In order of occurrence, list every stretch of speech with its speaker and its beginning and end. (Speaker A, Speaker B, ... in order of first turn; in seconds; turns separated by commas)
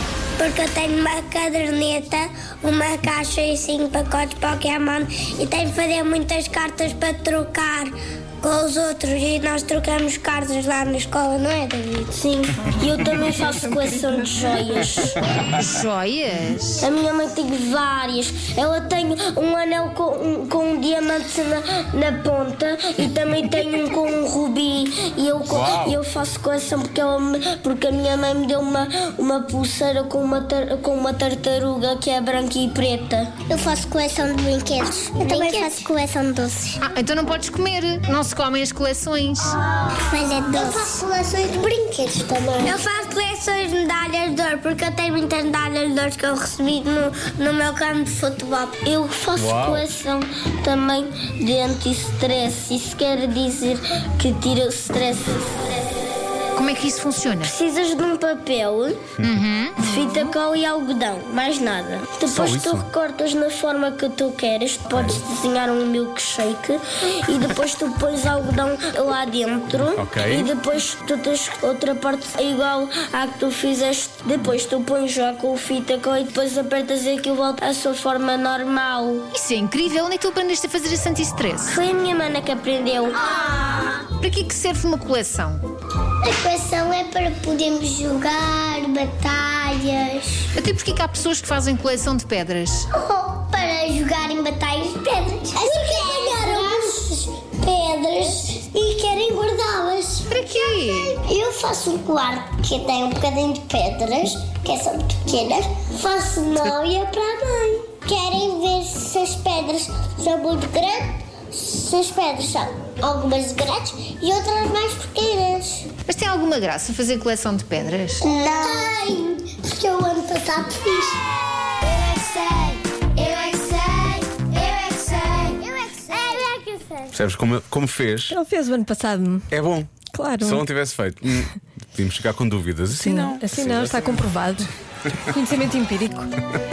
Speaker A: 0.4-12.1, Speaker B: 12.1-15.2, Speaker C: 15.6-16.8, Speaker B: 16.8-33.5, Speaker D: 25.5-26.0, Speaker A: 33.5-36.8, Speaker B: 35.3-35.8, Speaker C: 36.8-39.6, Speaker A: 39.9-46.6, Speaker B: 46.6-47.2, Speaker A: 47.3-48.7, Speaker B: 48.7-55.9, Speaker D: 49.4-49.9, Speaker C: 56.5-57.5, Speaker B: 57.4-59.1, Speaker C: 59.2-60.1, Speaker B: 59.8-79.3, Speaker D: 62.3-62.9, Speaker D: 64.9-65.2, Speaker D: 70.0-70.5, Speaker C: 79.3-81.8, Speaker B: 81.7-83.3, Speaker C: 84.2-85.6, Speaker A: 86.2-90.5, Speaker C: 90.5-92.9, Speaker A: 92.9-115.9, Speaker B: 96.3-96.9, Speaker C: 100.3-101.2, Speaker C: 116.1-118.2, Speaker A: 118.2-121.2, Speaker A: 121.8-127.0, Speaker D: 127.1-128.4, Speaker E: 128.3-129.5, Speaker D: 129.5-134.2, Speaker E: 130.0-130.6, Speaker E: 132.9-134.7, Speaker E: 135.3-136.3